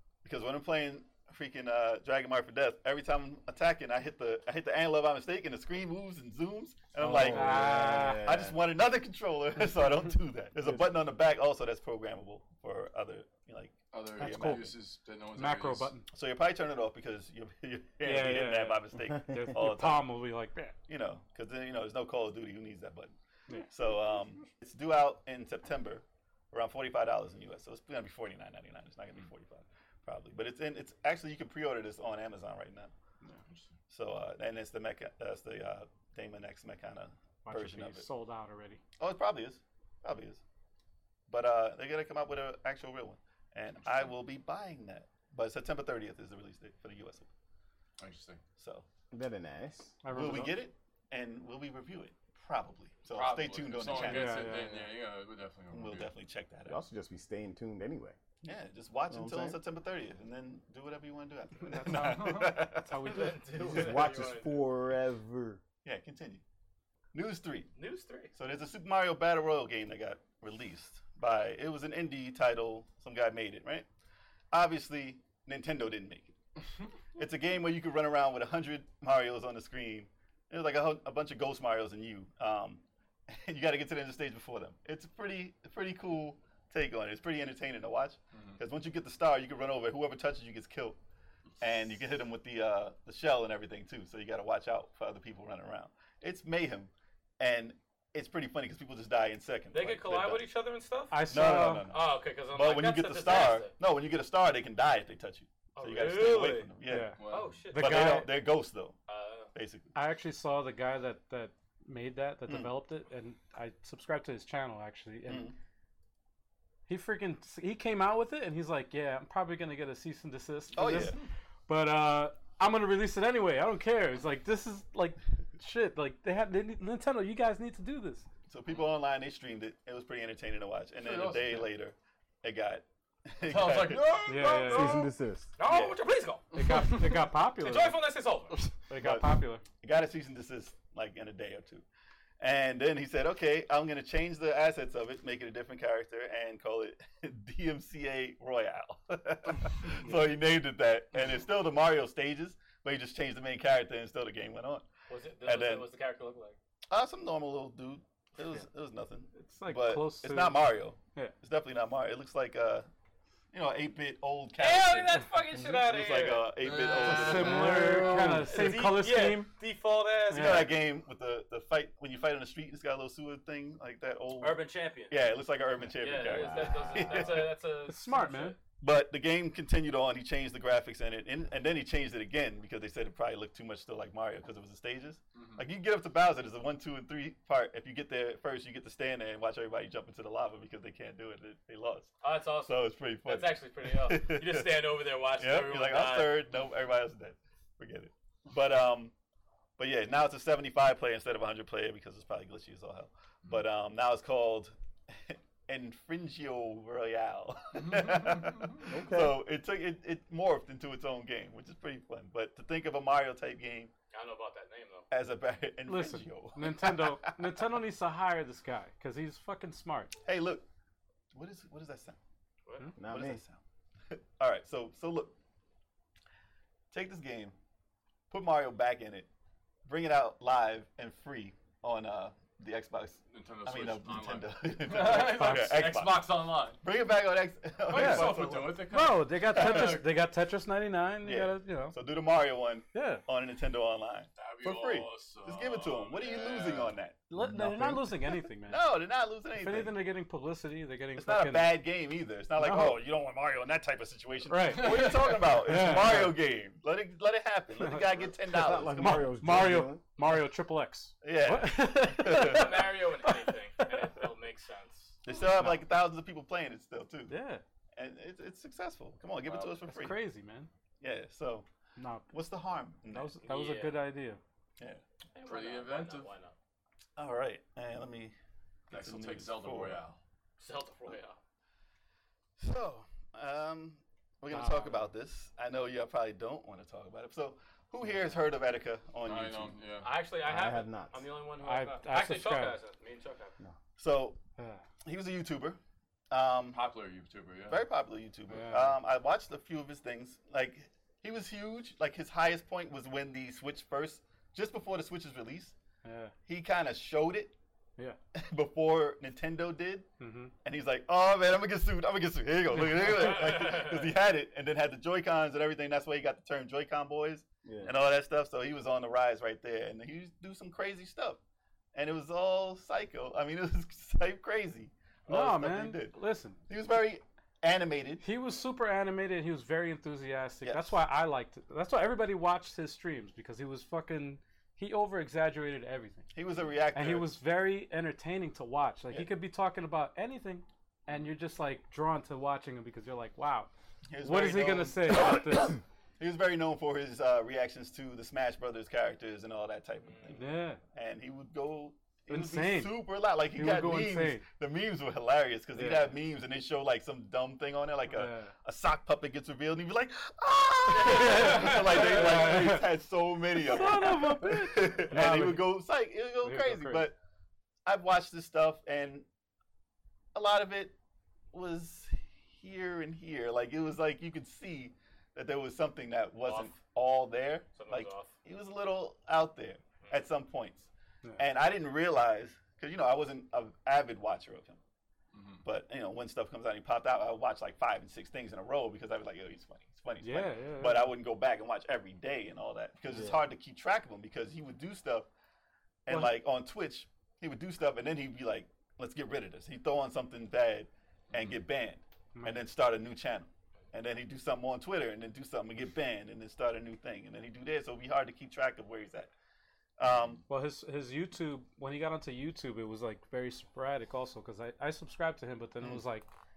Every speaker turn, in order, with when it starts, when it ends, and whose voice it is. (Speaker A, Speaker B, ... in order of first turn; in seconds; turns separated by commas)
Speaker A: 0.2-14.7, Speaker B: 7.0-8.3, Speaker C: 7.0-8.6, Speaker D: 13.9-15.9, Speaker B: 14.2-14.7, Speaker B: 15.3-16.1, Speaker A: 16.1-20.2, Speaker B: 18.0-20.7, Speaker A: 20.9-23.1, Speaker A: 23.7-32.9, Speaker A: 33.9-38.0, Speaker B: 37.4-38.8, Speaker A: 39.0-40.4, Speaker A: 41.3-47.3, Speaker D: 43.8-44.1, Speaker D: 48.0-48.4, Speaker A: 48.6-48.9, Speaker C: 49.1-50.0, Speaker B: 50.0-50.6, Speaker A: 50.1-54.6, Speaker D: 53.1-56.1, Speaker B: 53.9-54.8, Speaker A: 55.7-56.8, Speaker C: 56.6-58.2, Speaker A: 58.4-64.0, Speaker C: 59.1-59.6, Speaker B: 61.6-63.5, Speaker D: 62.0-62.2, Speaker E: 63.0-64.7, Speaker C: 63.5-65.6, Speaker A: 65.8-66.4, Speaker A: 67.1-67.7, Speaker E: 67.7-68.3, Speaker A: 68.3-73.9, Speaker A: 74.5-76.3, Speaker A: 77.1-91.0, Speaker D: 88.3-88.6, Speaker A: 91.6-100.4, Speaker E: 99.7-103.7, Speaker B: 101.1-101.9, Speaker A: 101.3-107.2, Speaker E: 105.8-106.7, Speaker B: 106.8-108.3, Speaker D: 107.2-107.6, Speaker E: 107.3-108.3, Speaker A: 107.7-109.0, Speaker E: 109.1-109.5, Speaker A: 109.5-109.9, Speaker B: 109.9-115.5, Speaker A: 112.5-112.7, Speaker A: 115.2-115.5, Speaker B: 116.9-128.2, Speaker A: 120.7-121.2, Speaker A: 128.5-134.2, Speaker D: 131.0-131.7, Speaker D: 133.4-134.9, Speaker E: 133.9-136.6, Speaker B: 134.2-135.1, Speaker C: 134.7-135.5, Speaker A: 135.7-135.9, Speaker B: 136.5-138.0, Speaker D: 136.5-137.2, Speaker E: 137.5-138.7, Speaker B: 138.9-139.6, Speaker A: 138.9-141.8, Speaker A: 142.4-154.8, Speaker E: 155.1-156.6, Speaker A: 155.4-155.9, Speaker A: 156.9-162.9, Speaker B: 159.3-161.3, Speaker A: 163.5-168.0, Speaker E: 164.6-170.7, Speaker D: 166.6-168.8, Speaker B: 167.0-169.5, Speaker B: 170.3-170.7, Speaker A: 170.3-177.6, Speaker E: 174.4-175.2, Speaker E: 175.8-178.6, Speaker D: 176.3-177.4, Speaker B: 177.9-178.6, Speaker A: 178.8-199.1, Speaker D: 185.3-185.7, Speaker E: 192.2-196.3, Speaker A: 199.8-213.9, Speaker D: 207.7-208.9, Speaker C: 208.8-209.4, Speaker E: 214.1-215.1, Speaker A: 215.1-217.3, Speaker B: 215.8-220.1, Speaker A: 220.2-220.6, Speaker A: 221.3-222.2, Speaker C: 223.0-223.4, Speaker A: 223.0-225.3, Speaker A: 226.9-227.5, Speaker A: 228.3-229.3, Speaker A: 229.8-238.8, Speaker D: 233.3-236.8, Speaker E: 235.0-235.7, Speaker B: 235.3-235.7, Speaker D: 237.8-240.0, Speaker B: 237.9-241.9, Speaker A: 239.5-240.0, Speaker A: 241.2-247.2, Speaker B: 242.9-243.2, Speaker D: 244.4-247.0, Speaker B: 247.3-248.8, Speaker C: 247.4-248.1, Speaker A: 248.7-249.9, Speaker B: 249.6-251.8, Speaker A: 251.2-259.6, Speaker B: 252.6-253.0, Speaker B: 254.5-256.3, Speaker D: 254.8-256.1, Speaker B: 257.7-258.1, Speaker C: 258.5-260.0, Speaker B: 258.9-264.1, Speaker A: 261.2-262.9, Speaker E: 262.3-265.2, Speaker A: 265.2-267.3, Speaker B: 265.4-265.8, Speaker B: 267.3-267.6, Speaker A: 267.9-270.2, Speaker D: 269.4-269.8, Speaker B: 269.9-270.7, Speaker A: 271.0-271.6, Speaker B: 272.0-272.3, Speaker A: 272.3-273.3, Speaker B: 273.1-274.4, Speaker E: 273.4-274.0, Speaker E: 275.3-276.5, Speaker D: 275.4-276.3, Speaker A: 277.2-278.3, Speaker D: 278.9-280.2, Speaker A: 278.9-280.0, Speaker E: 280.6-281.4, Speaker A: 282.6-289.8, Speaker B: 284.5-285.1, Speaker D: 289.2-290.1, Speaker E: 290.0-293.5, Speaker C: 290.4-291.3, Speaker B: 291.6-292.8, Speaker A: 294.0-294.4, Speaker A: 295.0-295.8, Speaker A: 296.3-296.8, Speaker D: 296.7-297.9, Speaker A: 297.7-305.7, Speaker B: 298.5-298.9, Speaker B: 306.0-306.3, Speaker A: 306.4-307.6, Speaker A: 308.3-310.1, Speaker B: 310.2-310.5, Speaker A: 310.6-321.4, Speaker E: 313.1-314.0, Speaker C: 317.6-317.9, Speaker A: 321.9-326.1, Speaker B: 325.3-326.6, Speaker A: 326.7-328.2, Speaker B: 328.2-336.3, Speaker A: 330.6-330.9, Speaker A: 336.3-337.3, Speaker B: 336.9-343.7, Speaker A: 344.1-367.1, Speaker B: 344.2-345.8, Speaker E: 350.0-350.4, Speaker B: 350.4-350.8, Speaker B: 352.3-353.0, Speaker B: 353.5-354.4, Speaker B: 355.7-356.1, Speaker B: 358.1-358.5, Speaker E: 360.9-362.4, Speaker B: 361.0-362.9, Speaker B: 363.6-365.8, Speaker B: 366.4-367.1, Speaker A: 367.9-369.2, Speaker A: 370.3-370.9, Speaker A: 371.5-384.8, Speaker E: 376.4-376.7, Speaker E: 377.7-378.4, Speaker D: 385.3-385.6, Speaker A: 385.6-395.3, Speaker B: 390.2-391.2, Speaker C: 393.1-393.4, Speaker A: 396.1-409.3, Speaker B: 396.1-396.3, Speaker D: 401.3-401.6, Speaker B: 402.3-402.6, Speaker A: 410.0-410.4, Speaker B: 410.5-416.3